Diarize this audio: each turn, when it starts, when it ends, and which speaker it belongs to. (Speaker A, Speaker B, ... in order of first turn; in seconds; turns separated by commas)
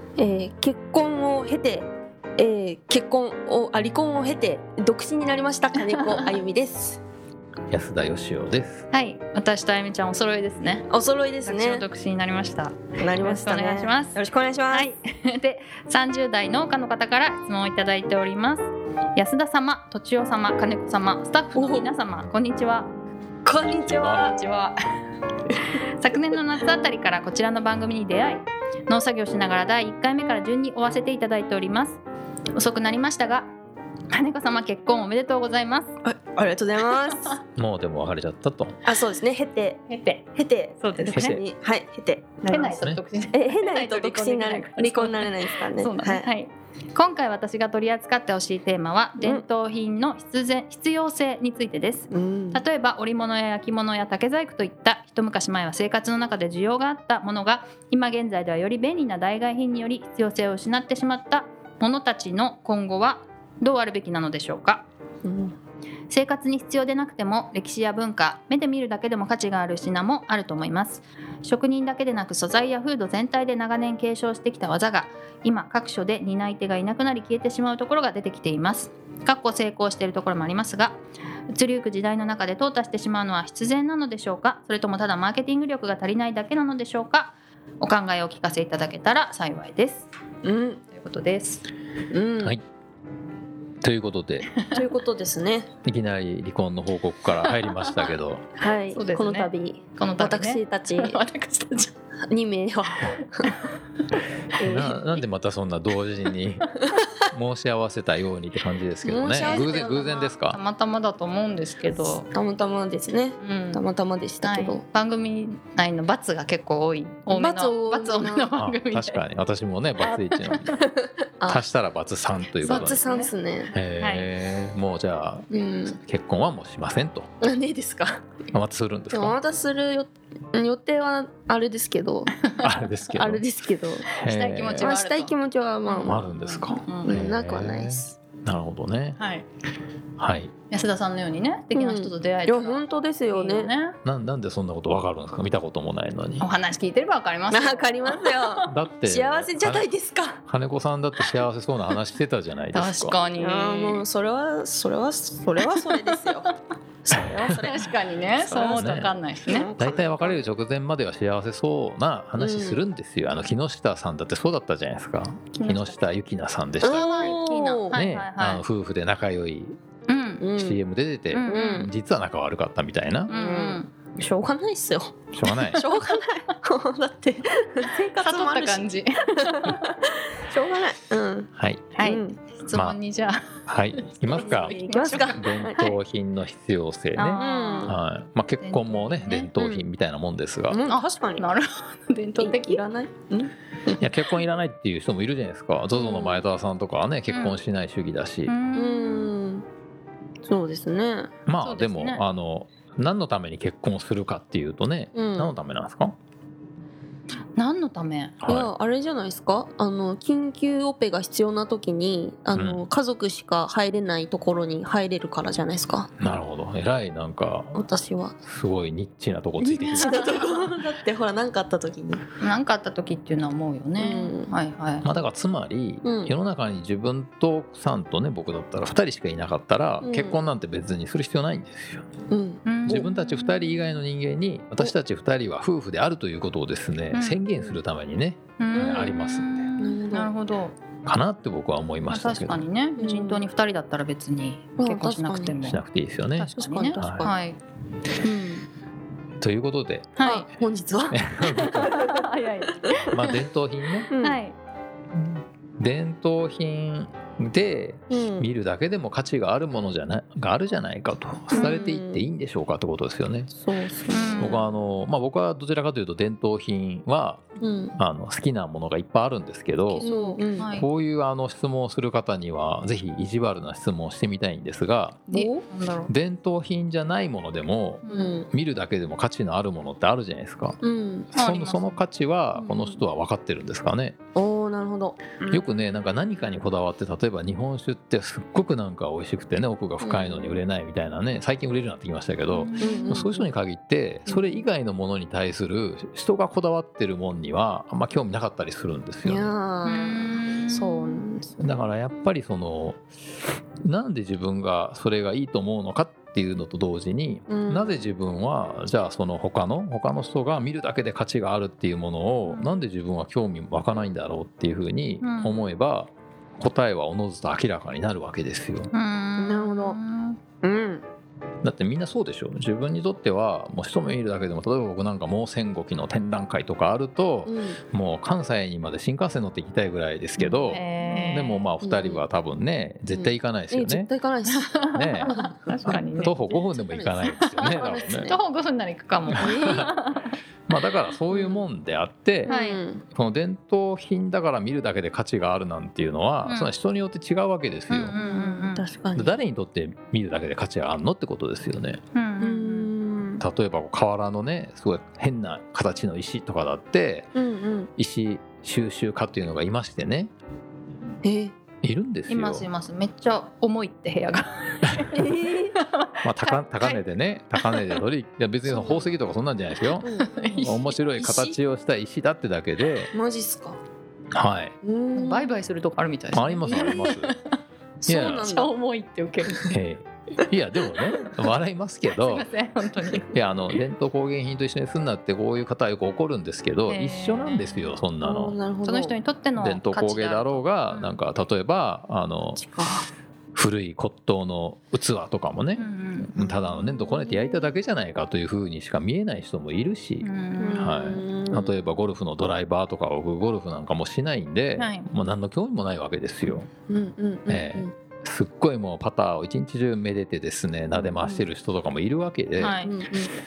Speaker A: 0.2-7.0, Speaker B: 6.0-6.2, Speaker C: 7.7-8.9, Speaker B: 8.9-10.9, Speaker A: 10.9-11.8, Speaker B: 11.4-14.2, Speaker A: 13.0-14.9, Speaker B: 14.7-22.9, Speaker A: 21.5-21.9, Speaker A: 23.5-24.3, Speaker C: 23.9-24.3, Speaker B: 24.0-24.8, Speaker B: 25.8-32.0, Speaker B: 32.5-33.5, Speaker B: 34.1-35.9, Speaker A: 36.0-37.4, Speaker C: 37.6-38.8, Speaker A: 38.8-42.8, Speaker B: 39.9-40.2, Speaker B: 40.8-41.4, Speaker C: 41.1-41.4, Speaker B: 42.5-64.8, Speaker C: 42.6-43.0, Speaker A: 43.3-46.3, Speaker A: 52.1-52.6, Speaker A: 65.2-65.5, Speaker B: 66.1-90.1, Speaker A: 90.4-90.8, Speaker B: 90.9-91.6, Speaker A: 92.1-92.6, Speaker C: 93.8-94.5, Speaker A: 94.7-95.7, Speaker C: 95.8-98.5, Speaker B: 97.7-98.0, Speaker A: 98.6-101.2, Speaker B: 98.9-101.9, Speaker A: 102.3-103.5, Speaker A: 104.6-105.0, Speaker C: 104.6-110.6, Speaker A: 109.0-109.9, Speaker B: 109.3-112.3, Speaker A: 112.0-114.8, Speaker B: 113.4-113.8, Speaker B: 114.4-119.2, Speaker A: 117.3-118.5, Speaker C: 118.6-120.8, Speaker A: 120.5-121.6, Speaker C: 121.5-123.0, Speaker A: 122.6-123.7, Speaker B: 122.6-123.3, Speaker C: 123.7-127.3, Speaker B: 124.0-124.3, Speaker A: 125.5-126.0, Speaker A: 127.4-128.2, Speaker C: 128.5-129.4, Speaker A: 129.1-132.3, Speaker B: 132.4-132.7, Speaker C: 132.6-133.4, Speaker A: 133.1-134.1, Speaker C: 134.1-135.0, Speaker B: 134.2-137.3, Speaker A: 134.8-138.2, Speaker C: 136.1-139.2, Speaker B: 139.2-139.5, Speaker C: 140.2-140.5, Speaker B: 140.7-144.0, Speaker A: 141.8-143.7, Speaker C: 144.1-146.5, Speaker B: 146.4-148.7, Speaker A: 147.5-150.4, Speaker C: 148.7-149.9, Speaker C: 150.5-153.2, Speaker B: 152.7-154.0, Speaker A: 153.3-156.5, Speaker B: 155.6-156.5, Speaker A: 157.1-157.8, Speaker C: 157.1-157.7, Speaker B: 157.6-159.7, Speaker A: 158.5-158.8, Speaker C: 158.5-159.1, Speaker A: 159.4-160.4, Speaker C: 159.8-167.2, Speaker A: 162.4-162.8, Speaker B: 165.6-165.9, Speaker A: 166.8-168.0, Speaker B: 166.8-168.6, Speaker C: 167.9-169.8, Speaker B: 170.1-170.5, Speaker A: 170.4-170.8, Speaker C: 170.6-173.3, Speaker B: 171.3-171.9, Speaker A: 171.5-171.9, Speaker B: 173.3-173.9, Speaker A: 173.3-178.9, Speaker C: 175.3-175.8, Speaker B: 175.7-176.0, Speaker B: 178.2-179.9, Speaker A: 179.4-179.8, Speaker A: 180.4-181.5, Speaker C: 181.6-181.9, Speaker B: 181.9-186.0, Speaker A: 182.0-182.4, Speaker C: 183.7-184.8, Speaker A: 184.3-185.8, Speaker C: 185.3-190.8, Speaker B: 187.1-188.0, Speaker A: 187.4-188.0, Speaker B: 188.6-189.5, Speaker A: 189.6-189.8, Speaker A: 190.7-191.5, Speaker B: 190.9-192.8, Speaker A: 192.4-194.1, Speaker C: 194.0-198.5, Speaker A: 195.9-196.4, Speaker B: 197.3-197.6, Speaker B: 198.5-199.3, Speaker A: 198.7-199.7, Speaker A: 200.4-201.3, Speaker C: 201.5-206.2, Speaker B: 201.6-202.2, Speaker A: 205.2-205.6, Speaker B: 207.6-208.4, Speaker C: 208.4-208.7, Speaker A: 208.4-216.1, Speaker C: 212.5-212.9, Speaker C: 216.2-217.8, Speaker A: 217.7-218.4, Speaker C: 218.4-220.2, Speaker A: 219.6-222.2, Speaker B: 219.9-220.5, Speaker B: 222.4-225.1, Speaker A: 224.0-224.5, Speaker C: 225.0-232.1, Speaker A: 226.0-226.3, Speaker A: 230.0-230.4, Speaker A: 232.3-233.1, Speaker B: 232.7-234.0, Speaker C: 232.8-239.7, Speaker B: 237.1-237.4, Speaker B: 238.6-240.8, Speaker A: 238.8-239.1, Speaker A: 239.8-240.3, Speaker C: 241.1-242.6, Speaker B: 242.1-245.8, Speaker A: 243.0-243.4, Speaker A: 244.8-245.6, Speaker C: 245.6-247.3, Speaker B: 246.4-247.6, Speaker A: 246.6-247.3, Speaker A: 248.2-248.7, Speaker C: 249.4-250.2, Speaker B: 250.2-250.5, Speaker A: 250.2-251.2, Speaker C: 251.1-252.0, Speaker B: 251.4-253.4, Speaker C: 253.1-254.1, Speaker A: 254.1-254.4, Speaker B: 254.2-254.6, Speaker C: 255.2-263.5, Speaker A: 258.1-258.5, Speaker A: 261.5-262.3, Speaker A: 263.5-264.7, Speaker B: 264.1-264.7, Speaker C: 264.4-267.4, Speaker A: 267.6-268.0, Speaker C: 268.0-270.1, Speaker B: 269.9-270.9, Speaker A: 270.0-270.7, Speaker C: 270.7-275.5, Speaker B: 275.3-276.1, Speaker A: 275.3-275.6, Speaker C: 276.1-280.8, Speaker B: 278.0-278.4, Speaker A: 278.1-278.5, Speaker A: 280.8-281.3, Speaker B: 281.3-282.0, Speaker C: 281.3-284.2, Speaker A: 282.6-283.1, Speaker A: 284.4-285.6, Speaker C: 285.5-299.5, Speaker A: 290.0-290.6, Speaker B: 292.5-293.3, Speaker A: 292.8-293.5, Speaker A: 294.3-294.6, Speaker A: 299.2-301.6, Speaker B: 299.9-301.2, Speaker C: 301.6-303.0, Speaker C: 303.9-318.9, Speaker A: 307.5-308.0, Speaker B: 315.2-315.6, Speaker B: 318.9-320.4, Speaker A: 319.4-320.0, Speaker A: 320.6-321.1, Speaker C: 321.6-334.1, Speaker A: 327.5-327.8, Speaker A: 330.4-332.2, Speaker B: 330.7-331.7, Speaker A: 333.1-334.8, Speaker B: 334.5-336.5, Speaker C: 334.9-335.3, Speaker A: 335.3-335.5, Speaker C: 335.9-338.4, Speaker A: 336.0-337.2, Speaker B: 337.3-340.4, Speaker A: 338.1-338.4, Speaker C: 339.3-339.9, Speaker A: 339.4-339.9, Speaker C: 340.7-342.5, Speaker A: 341.3-341.7, Speaker B: 342.5-342.8, Speaker A: 342.5-343.0, Speaker C: 343.1-348.2, Speaker B: 346.4-346.7, Speaker B: 347.9-348.9, Speaker A: 348.1-349.4, Speaker C: 349.1-352.0, Speaker B: 352.1-352.9, Speaker A: 352.4-353.4, Speaker C: 353.4-357.3, Speaker A: 357.4-357.9, Speaker C: 358.0-360.3, Speaker A: 361.2-361.6, Speaker C: 361.8-362.7, Speaker B: 362.3-367.0, Speaker A: 365.1-365.8, Speaker C: 366.2-370.1, Speaker B: 367.6-368.0, Speaker A: 368.7-369.0, Speaker A: 370.0-370.6, Speaker B: 370.0-371.6, Speaker C: 370.6-373.1, Speaker A: 373.1-373.8, Speaker C: 374.3-374.7, Speaker A: 374.8-375.5, Speaker B: 375.1-377.4, Speaker C: 376.3-377.3, Speaker A: 376.7-377.1, Speaker A: 378.0-378.7, Speaker C: 378.1-378.5, Speaker B: 378.4-379.8, Speaker C: 379.7-382.5, Speaker B: 382.1-383.3, Speaker C: 383.3-388.6, Speaker B: 386.9-388.0, Speaker A: 388.2-389.2, Speaker B: 388.8-391.2, Speaker C: 389.6-392.6, Speaker A: 392.6-393.1, Speaker C: 393.5-406.7, Speaker B: 395.8-396.4, Speaker A: 397.0-397.7, Speaker B: 400.2-401.0, Speaker A: 400.6-401.8, Speaker B: 404.8-405.1, Speaker A: 406.9-407.9, Speaker C: 407.5-412.8, Speaker B: 412.6-412.9, Speaker A: 412.8-413.3